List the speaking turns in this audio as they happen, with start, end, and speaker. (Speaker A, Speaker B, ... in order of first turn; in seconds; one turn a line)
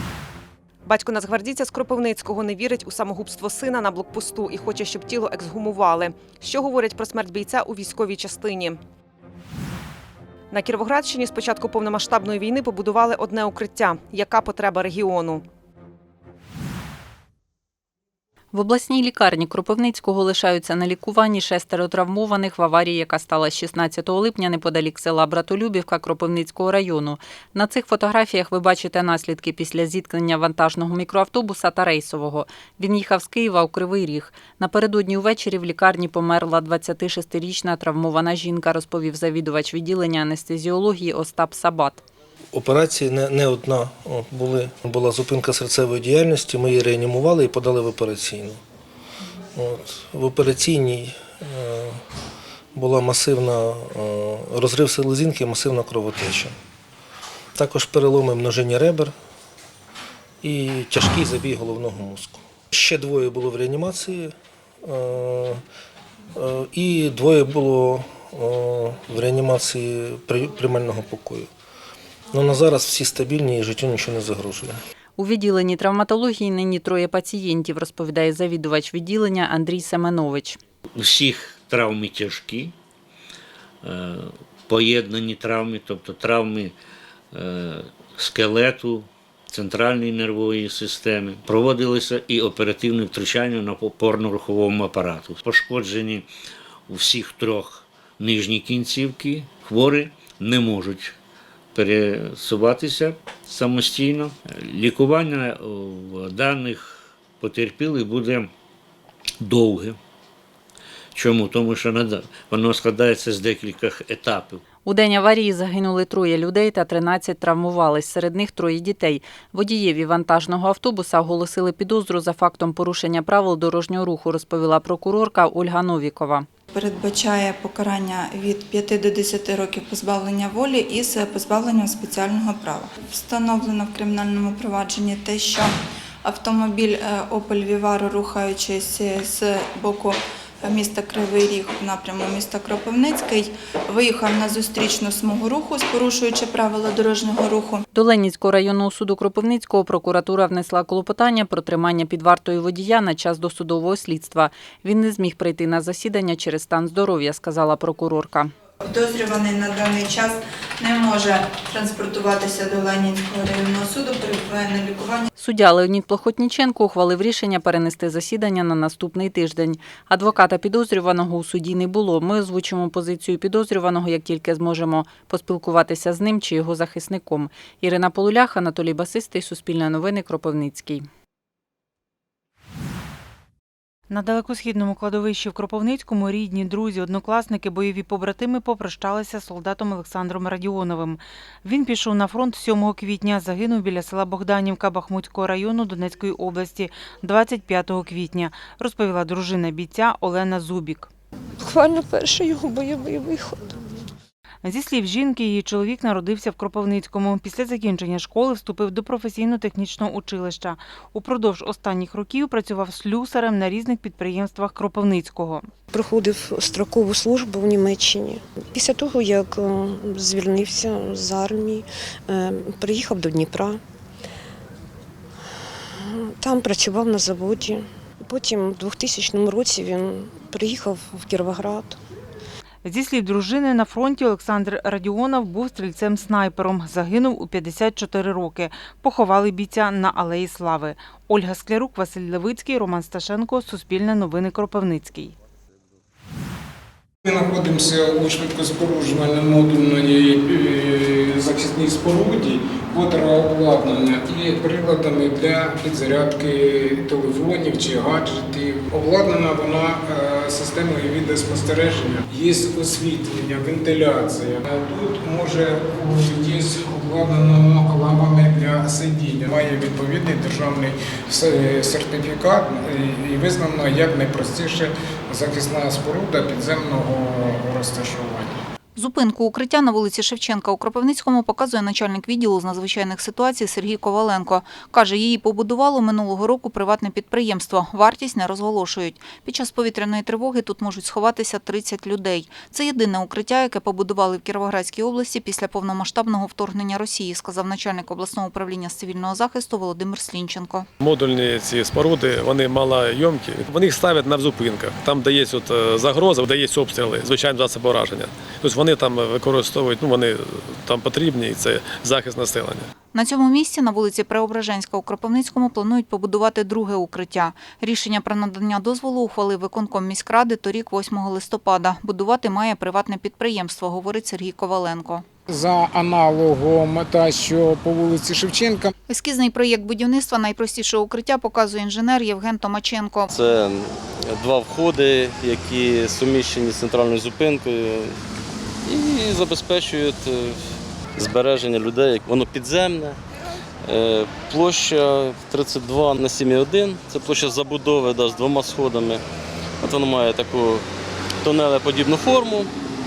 Speaker A: 0.8-8.8
Speaker A: 10.5-15.4
Speaker B: 18.5-42.0
Speaker C: 42.5-48.6
Speaker C: 49.5-52.0
Speaker C: 52.7-56.5
Speaker C: 57.5-59.1
Speaker C: 60.4-65.6
Speaker C: 66.4-71.5
Speaker C: 72.3-74.8
Speaker B: 75.2-80.6
Speaker D: 80.9-82.7
Speaker D: 83.8-86.7
Speaker D: 87.3-96.2
Speaker D: 96.9-101.2
Speaker D: 101.7-108.5
Speaker D: 109.4-110.0
Speaker D: 111.1-114.6
Speaker B: 114.8-126.5
Speaker E: 126.7-147.8
Speaker B: 147.9-158.5
Speaker E: 158.8-165.2
Speaker B: 165.4-181.0
Speaker F: 184.1-201.1
Speaker G: 201.6-203.9
Speaker F: 204.6-215.7
Speaker G: 215.9-223.8
Speaker G: 226.0-232.0
Speaker F: 232.8-245.3
Speaker H: 247.2-278.6
Speaker I: 278.9-300.9
Speaker J: 301.0-312.9
Speaker I: 313.1-325.2
Speaker H: 325.5-328.9
Speaker I: 329.1-333.3
Speaker K: 333.3-338.1
Speaker K: 338.9-340.6
Speaker K: 341.2-343.2
Speaker K: 343.8-349.2
Speaker K: 349.8-350.8
Speaker K: 351.4-352.7